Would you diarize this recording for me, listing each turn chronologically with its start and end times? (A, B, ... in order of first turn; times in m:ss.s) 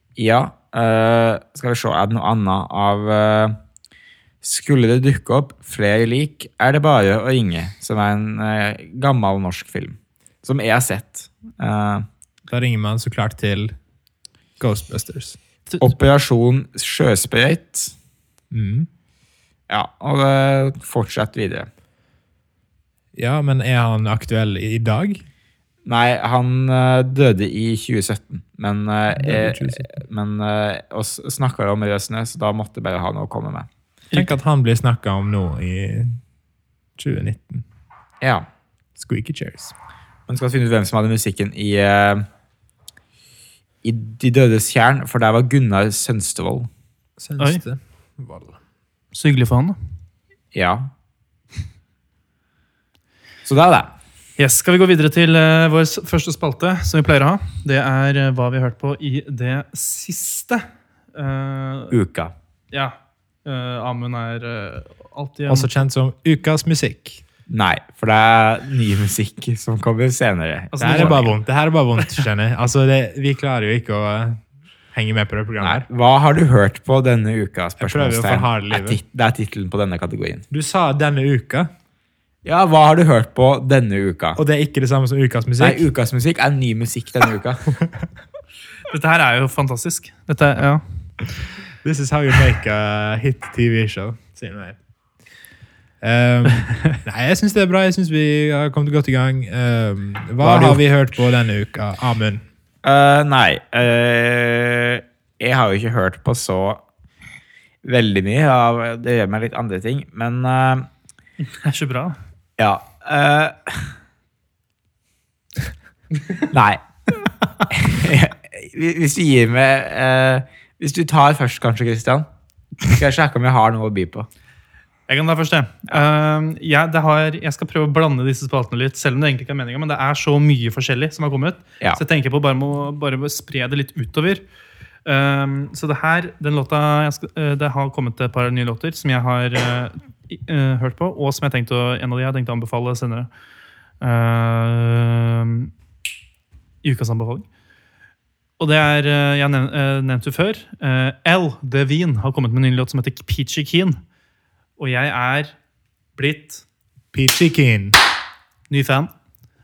0:00.2-0:03.6 A
0:04.4-0:12.1 A
0:12.5-0:13.8 B
0:14.6-0:15.4 B
0:15.8-0:18.0 A
0:18.5-0:18.9 B
0:19.7-0:21.7 A
0:23.2-0:25.2 B
0:25.9-0:33.7 A
0:29.2-0:29.9 B
0:34.1-0:36.2 B
0:37.0-0:37.6 B
0:38.2-0:38.5 A
0:39.0-0:39.7 B
0:40.3-0:42.3 A
0:43.8-0:46.7 A
0:47.2-0:48.6 B
0:49.1-0:49.8 C
0:50.5-0:50.9 A
0:53.5-0:53.9 A
0:54.4-1:01.9 C
1:01.9-1:02.3 A
1:02.7-1:05.7 C
1:05.5-1:07.2 B
1:07.5-1:11.3 A
1:10.7-1:11.3 C
1:10.8-1:14.4 B
1:14.9-1:15.9 B
1:15.6-1:20.4 A
1:17.8-1:19.0 B
1:20.5-1:21.7 B
1:22.4-1:24.4 A
1:24.4-1:25.9 B
1:25.6-1:27.7 A
1:27.8-1:28.0 B
1:28.9-1:30.8 C
1:31.8-1:34.8 B
1:36.0-1:42.4 B
1:40.4-1:40.8 A
1:42.8-1:46.8 A
1:47.8-1:50.9 A
1:51.6-1:52.2 C
1:52.6-1:53.9 A
1:56.5-1:56.8 A
1:57.7-2:02.3 A
2:02.8-2:04.3 A
2:05.1-2:14.4 C
2:15.0-2:23.3 C
2:24.0-2:25.7 C
2:26.8-2:27.4 C
2:28.6-2:34.0 C
2:34.8-2:35.5 C
2:36.2-2:36.6 C
2:37.1-2:38.0 B
2:38.7-2:39.1 C